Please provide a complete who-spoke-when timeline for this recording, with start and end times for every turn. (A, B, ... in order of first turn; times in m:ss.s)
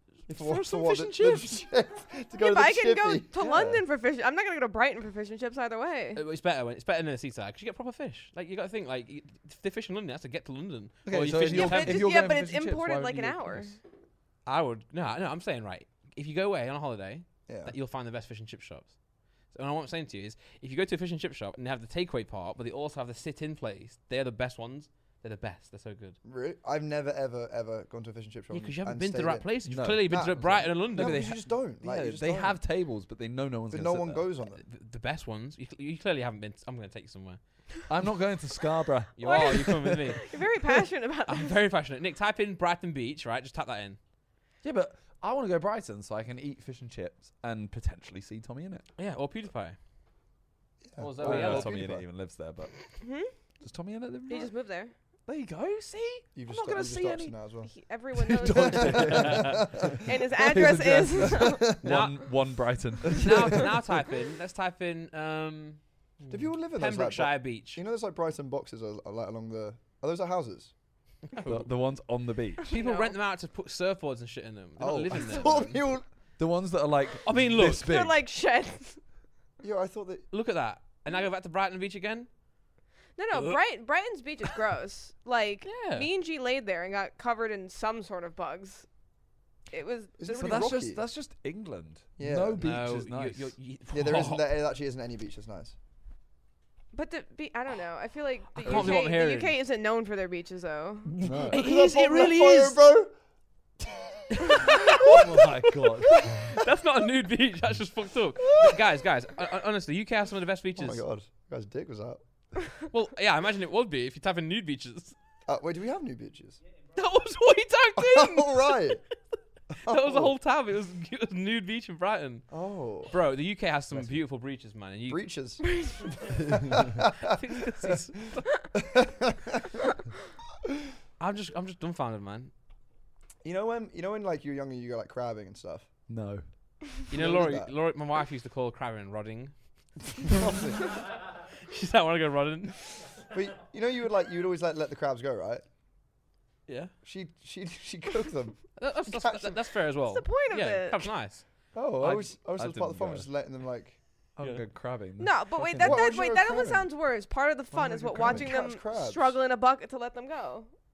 0:00.3-0:03.8 A
0:00.3-0:01.6 B
0:02.4-0:06.2 C
0:06.1-0:12.0 B
0:11.0-0:13.7 D
0:11.5-0:13.8 C
0:14.4-0:18.9 B
0:17.5-0:17.7 A
0:19.5-0:26.2 B
0:26.2-0:29.5 A
0:28.5-0:31.2 B
0:29.7-0:34.2 D
0:30.0-0:32.6 A
0:33.7-0:34.6 A
0:34.5-0:37.4 B
0:37.9-0:40.0 D
0:39.2-0:40.2 B
0:39.2-0:41.6 C
0:41.2-0:44.0 B
0:44.6-0:48.8 D
0:49.0-0:49.8 B
0:50.8-0:52.0 A
0:51.0-0:51.8 B
0:51.2-0:52.8 D
0:53.0-0:53.3 C
0:53.6-0:54.5 D
0:54.3-0:54.9 C
0:55.3-0:57.3 D
0:56.3-0:57.7 A
0:57.6-0:59.3 C
0:58.2-1:03.7 D
0:58.4-1:00.0 A
0:58.9-0:59.6 B
0:59.9-1:01.7 C
1:01.1-1:02.0 A
1:01.8-1:02.2 B
1:03.1-1:07.8 B
1:03.2-1:03.6 A
1:06.3-1:10.7 A
1:11.3-1:11.7 B
1:11.4-1:12.7 D
1:12.6-1:13.1 C
1:12.7-1:15.8 B
1:14.8-1:16.0 A
1:16.4-1:18.2 D
1:17.2-1:17.9 B
1:17.8-1:19.0 C
1:19.6-1:20.2 A
1:20.3-1:22.3 B
1:23.2-1:28.9 C
1:23.3-1:23.6 B
1:25.6-1:26.1 B
1:29.7-1:30.6 C
1:30.2-1:31.0 A
1:30.4-1:33.5 D
1:32.2-1:32.6 A
1:32.6-1:34.6 B
1:33.9-1:35.7 A
1:36.9-1:41.2 C
1:38.6-1:39.6 B
1:38.7-1:39.0 D
1:41.1-1:41.6 D
1:41.2-1:43.1 A
1:41.5-1:42.8 B
1:43.8-1:45.2 A
1:44.4-1:51.0 B
1:44.8-1:46.5 D
1:48.4-1:48.9 A
1:50.8-1:52.2 A
1:52.9-1:55.2 B
1:55.4-1:56.6 A
1:56.9-1:59.0 B
1:57.9-1:59.0 A
1:59.8-2:00.3 A
1:59.8-2:02.4 B
2:02.5-2:03.1 A
2:03.1-2:05.2 B
2:05.1-2:07.2 A
2:05.8-2:06.1 C
2:07.2-2:08.5 B
2:08.8-2:09.8 A
2:11.2-2:12.5 B
2:13.4-2:15.9 A
2:16.1-2:16.4 D
2:17.1-2:19.5 B
2:17.1-2:17.7 A
2:20.2-2:20.9 A
2:21.6-2:22.8 B
2:23.3-2:25.6 A
2:26.7-2:26.9 B
2:27.0-2:29.6 A
2:28.8-2:31.4 B
2:30.0-2:31.1 C
2:31.7-2:34.0 A
2:32.0-2:33.2 D
2:34.4-2:36.0 D
2:35.2-2:40.7 C
2:35.7-2:36.9 A
2:37.7-2:39.4 A
2:38.2-2:38.4 D